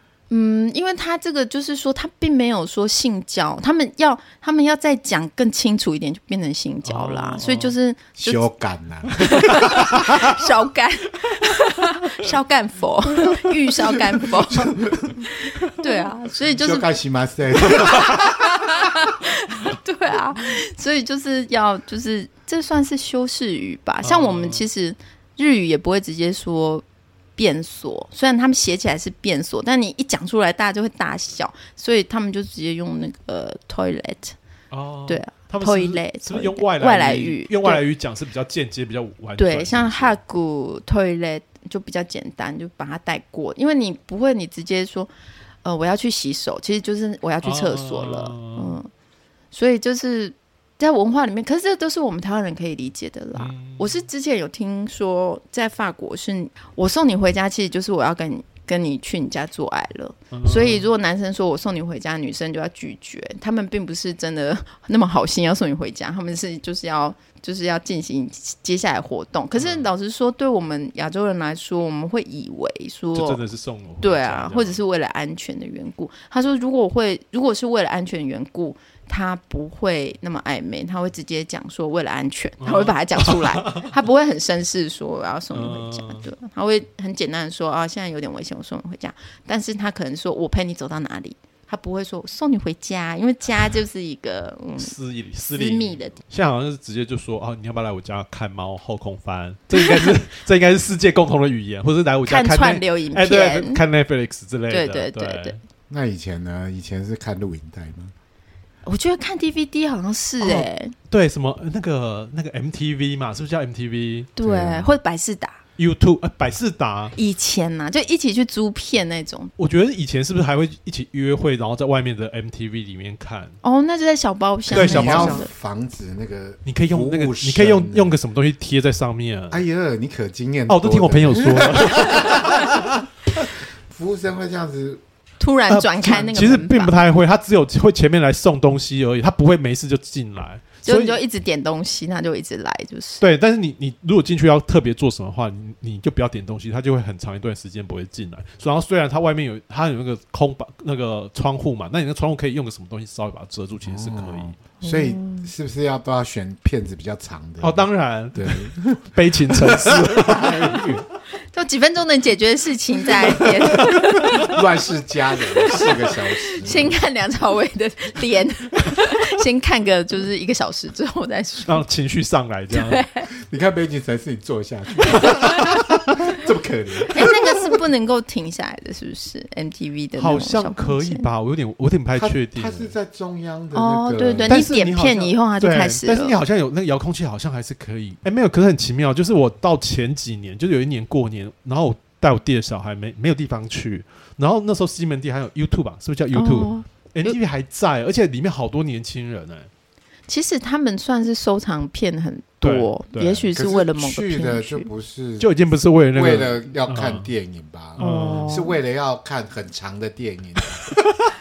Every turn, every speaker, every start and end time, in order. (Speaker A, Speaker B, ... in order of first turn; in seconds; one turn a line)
Speaker A: 0.3-8.5
Speaker B: 6.8-7.8
Speaker C: 8.2-10.2
Speaker A: 9.2-16.9
Speaker C: 14.2-15.2
Speaker C: 16.6-18.5
Speaker A: 17.7-26.8
Speaker B: 24.0-24.6
Speaker A: 27.4-34.4
Speaker B: 34.7-40.2
Speaker A: 35.1-37.8
Speaker A: 39.4-45.1
Speaker A: 45.6-48.9
Speaker B: 47.4-48.8
Speaker A: 49.5-73.4
Speaker B: 53.4-54.0
Speaker B: 60.3-60.9
Speaker B: 69.6-69.9
Speaker B: 73.1-74.8
Speaker A: 74.0-94.9
Speaker B: 82.6-83.9
Speaker B: 85.5-86.2
Speaker B: 94.8-105.6
Speaker A: 95.5-96.2
Speaker A: 99.7-100.1
Speaker A: 102.2-103.8
Speaker A: 104.7-105.6
Speaker C: 105.9-108.1
Speaker A: 108.9-111.0
Speaker B: 110.4-114.3
Speaker A: 114.4-115.6
Speaker C: 114.4-114.9
Speaker B: 115.8-117.1
Speaker A: 117.1-119.5
Speaker B: 119.6-123.6
Speaker A: 123.6-125.5
Speaker C: 124.7-128.2
Speaker B: 124.7-125.4
Speaker B: 126.7-129.6
Speaker C: 129.5-132.9
Speaker B: 130.7-132.9
Speaker C: 133.9-135.0
Speaker A: 135.4-136.9
Speaker B: 135.7-141.2
Speaker A: 140.8-143.2
Speaker B: 143.2-154.6
Speaker C: 153.8-161.0
Speaker A: 154.8-155.5
Speaker B: 157.6-161.1
Speaker A: 161.5-164.5
Speaker C: 164.3-167.0
Speaker A: 165.7-171.8
Speaker B: 171.7-173.1
Speaker A: 172.7-173.3
Speaker C: 173.4-177.6
Speaker A: 177.1-181.3
Speaker B: 180.2-182.9
Speaker C: 182.2-184.7
Speaker A: 183.7-186.4
Speaker B: 184.5-199.7
Speaker A: 196.3-197.4
Speaker A: 200.3-204.9
Speaker B: 202.6-203.5
Speaker C: 203.5-205.5
Speaker B: 205.4-207.3
Speaker C: 206.1-211.0
Speaker B: 208.0-208.7
Speaker A: 208.0-208.8